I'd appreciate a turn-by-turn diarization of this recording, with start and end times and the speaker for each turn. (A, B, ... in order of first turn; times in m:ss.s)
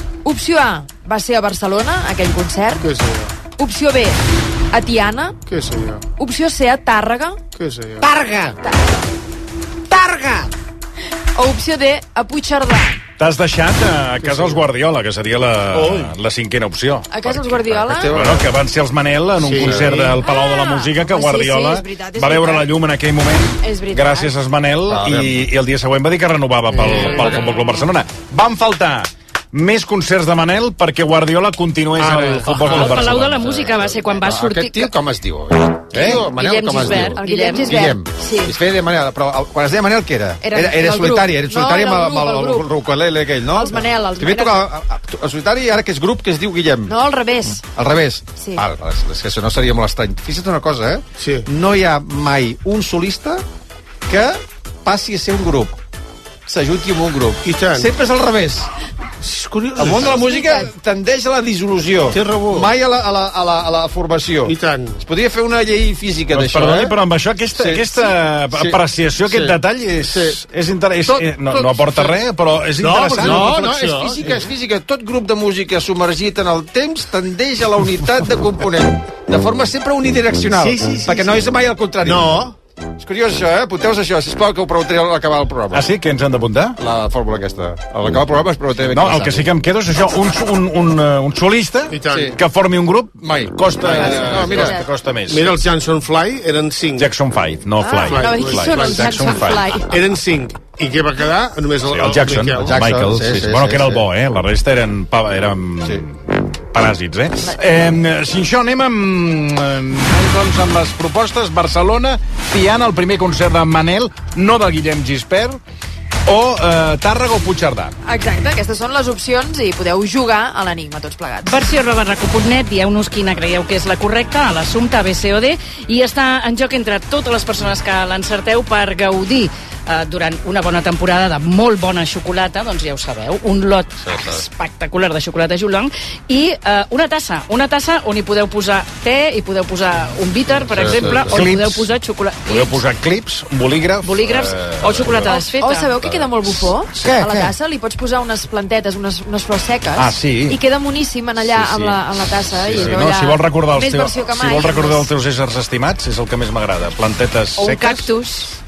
0:00.2-0:02.8 A
0:02.8-0:03.4 B
0:03.5-0:05.4 A
0:05.5-0:06.0 B
0:06.2-0:07.4 A
0:07.5-0:08.1 B
0:11.4-0:13.0 A
0:13.2-0:17.6 C
0:14.2-0:14.6 B
0:15.8-0:16.0 B
0:17.1-0:18.2 A
0:17.6-0:18.5 D
0:18.1-0:33.5 C
0:19.4-0:20.1 B
0:19.6-0:20.0 D
0:20.2-0:22.7 A
0:23.6-0:24.3 A
0:24.9-0:25.5 D
0:26.7-0:27.6 B
0:27.0-0:27.3 D
0:32.0-0:32.9 B
0:32.4-0:34.9 E
0:33.2-0:47.0 D
0:35.9-0:36.2 C
0:36.2-0:37.8 E
0:37.1-0:38.5 A
0:40.4-0:42.7 A
0:43.5-0:44.7 A
0:46.9-0:47.6 A
0:47.6-0:53.4 D
0:48.4-0:48.6 A
0:51.2-0:51.5 B
0:54.1-0:55.8 D
0:56.5-0:58.7 D
0:57.4-0:57.9 B
0:59.2-1:00.3 B
0:59.8-1:07.0 D
1:00.3-1:00.6 A
1:02.1-1:02.7 B
1:04.4-1:05.0 B
1:06.3-1:13.6 C
1:07.5-1:08.0 D
1:08.5-1:09.5 D
1:11.0-1:12.1 B
1:12.8-1:14.5 B
1:13.1-1:22.4 D
1:20.5-1:21.3 B
1:22.0-1:22.5 B
1:23.0-1:25.9 D
1:25.7-1:26.8 C
1:26.8-1:29.5 D
1:28.9-1:35.5 C
1:31.9-1:32.4 B
1:32.1-1:32.4 D
1:33.2-1:34.8 D
1:33.9-1:34.6 B
1:34.0-1:34.8 A
1:35.3-1:37.1 B
1:37.0-1:39.8 C
1:37.8-1:39.9 A
1:38.0-1:42.8 B
1:41.9-1:55.6 C
1:42.5-1:44.0 D
1:56.2-1:57.9 C
1:58.0-2:01.6 A
2:01.4-2:22.8 E
2:14.0-2:14.4 D
2:20.7-2:21.5 D
2:20.8-2:21.9 C
2:22.4-2:25.3 C
2:24.0-2:26.0 E
2:24.7-2:25.2 D
2:25.3-2:35.1 A
2:26.9-2:27.4 C
2:30.0-2:30.6 C
2:31.4-2:32.0 C
2:32.6-2:38.1 C
2:37.6-2:38.5 E